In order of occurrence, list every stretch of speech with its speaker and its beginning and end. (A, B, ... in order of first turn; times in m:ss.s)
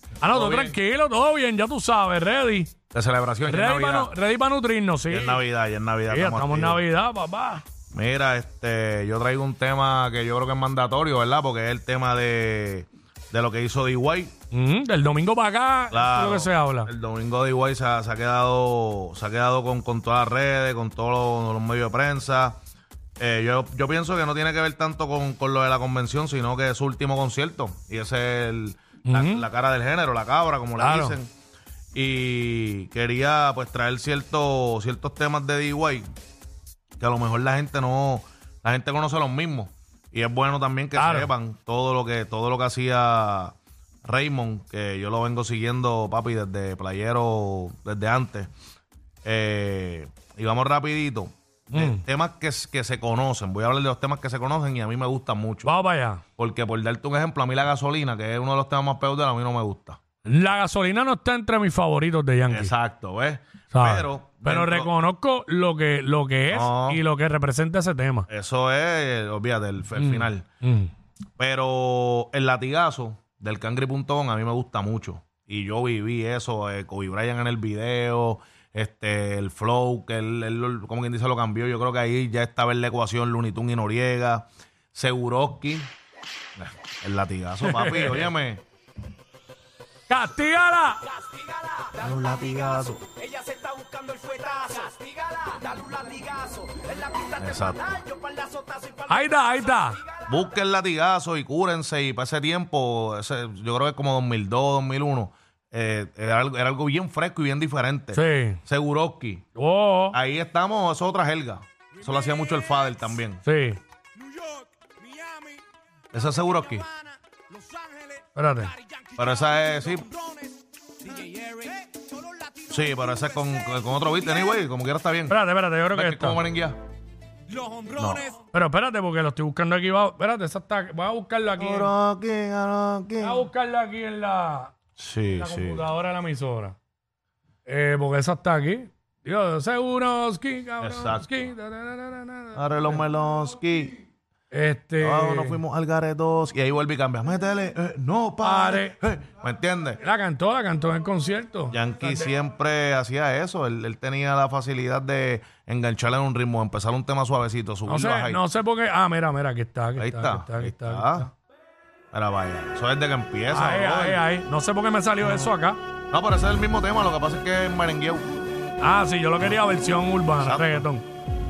0:00.2-0:02.7 A
0:00.3-0:00.8 B
0:02.9-0:04.1 B
0:03.5-0:05.4 A
0:05.1-0:06.8 B
0:06.1-0:07.6 A
0:07.9-0:14.3 B
0:14.5-0:16.9 A
0:15.9-0:22.6 B
0:23.2-0:31.3 B
0:29.1-0:29.4 A
0:30.8-0:31.2 A
0:32.0-0:36.1 B
0:37.0-0:43.6 B
0:41.0-0:41.3 A
0:44.1-0:48.5 B
0:49.2-0:55.7 B
0:51.7-0:52.0 A
0:55.6-0:56.2 A
0:56.4-1:00.0 B
1:00.2-1:02.7 A
1:02.5-1:04.9 B
1:03.7-1:08.3 A
1:06.5-1:07.0 B
1:08.3-1:10.4 B
1:10.0-1:10.9 A
1:11.4-1:25.9 B
1:26.6-1:28.6 B
1:27.6-1:28.3 A
1:30.1-1:31.0 A
1:31.1-1:40.3 C
1:32.0-1:33.1 B
1:37.4-1:38.0 B
1:39.1-1:40.0 A
1:40.3-1:49.4 B
1:48.1-1:48.6 A
1:49.6-1:50.2 A
1:50.1-1:53.4 B
1:53.4-1:53.8 A
1:54.2-1:55.6 C
1:56.1-1:56.9 B
1:56.9-1:58.2 C
1:58.4-1:58.7 A
1:58.8-2:00.5 C
1:59.2-2:00.1 B
2:01.0-2:03.2 C
2:02.7-2:05.4 B
2:05.3-2:06.4 A
2:05.9-2:06.8 B
2:07.5-2:08.4 C
2:08.0-2:08.3 B
2:08.5-2:11.9 A
2:11.6-2:13.5 B
2:13.2-2:14.7 A
2:15.0-2:15.8 B
2:15.4-2:16.8 A
2:17.7-2:23.0 A
2:20.8-2:21.5 B
2:22.6-2:23.9 B
2:24.5-2:25.6 A
2:25.0-2:30.0 B
2:28.4-2:29.0 A
2:30.0-2:32.3 A
2:31.7-2:38.4 B
2:37.9-2:41.3 A
2:40.0-2:41.3 B
2:42.1-2:44.2 B
2:43.5-2:45.8 A
2:45.2-2:45.5 B
2:46.1-2:48.3 B
2:48.8-2:51.0 A
2:50.4-2:50.9 B